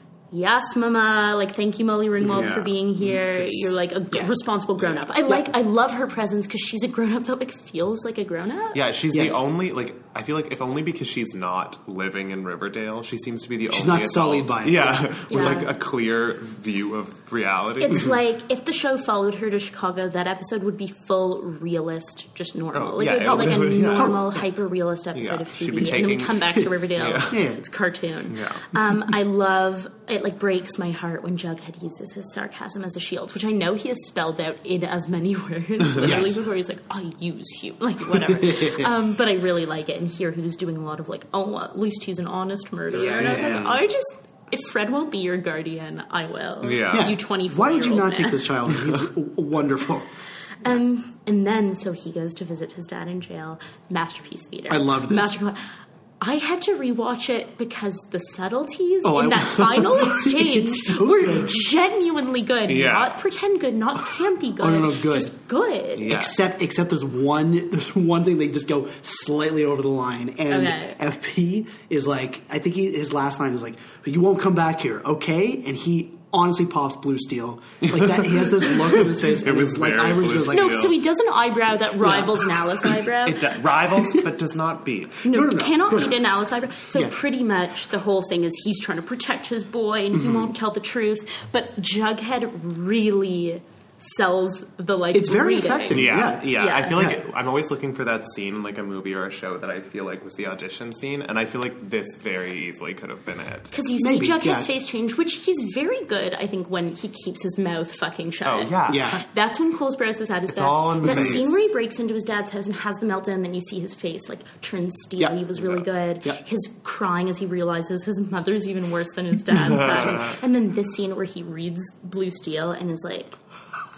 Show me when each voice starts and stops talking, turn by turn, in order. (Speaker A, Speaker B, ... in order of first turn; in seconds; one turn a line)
Speaker A: 0.3-8.8
Speaker B: 2.2-3.6
Speaker B: 8.7-18.1
Speaker C: 9.1-9.4
Speaker C: 13.7-15.7
Speaker A: 15.3-15.7
Speaker A: 17.8-48.5
Speaker B: 22.7-24.4
Speaker C: 23.2-24.3
Speaker B: 25.1-27.4
Speaker C: 27.3-27.6
Speaker B: 28.3-28.6
Speaker C: 36.0-36.4
Speaker C: 38.2-38.9
Speaker C: 42.9-43.8
Speaker B: 43.2-43.8
Speaker B: 46.6-47.1
Speaker C: 46.9-50.1
Speaker A: 50.6-55.6
Speaker C: 54.7-55.4
Speaker A: 56.2-66.2
Speaker C: 59.0-61.5
Speaker B: 62.7-63.2
Speaker C: 64.6-65.3
Speaker B: 66.0-66.4
Speaker C: 66.1-80.8
Speaker A: 70.5-71.0
Speaker B: 77.9-81.0
Speaker A: 80.5-83.5
Speaker C: 82.0-82.5
Speaker B: 83.2-85.3
Speaker A: 85.2-97.0
Speaker C: 85.3-86.2
Speaker C: 90.2-90.5
Speaker C: 95.1-97.2
Speaker B: 95.9-103.7
Speaker A: 103.7-123.3
Speaker C: 104.0-104.7
Speaker B: 108.4-109.1
Speaker C: 108.9-109.2
Speaker B: 110.5-111.6
Speaker C: 111.1-111.4
Speaker B: 119.5-120.4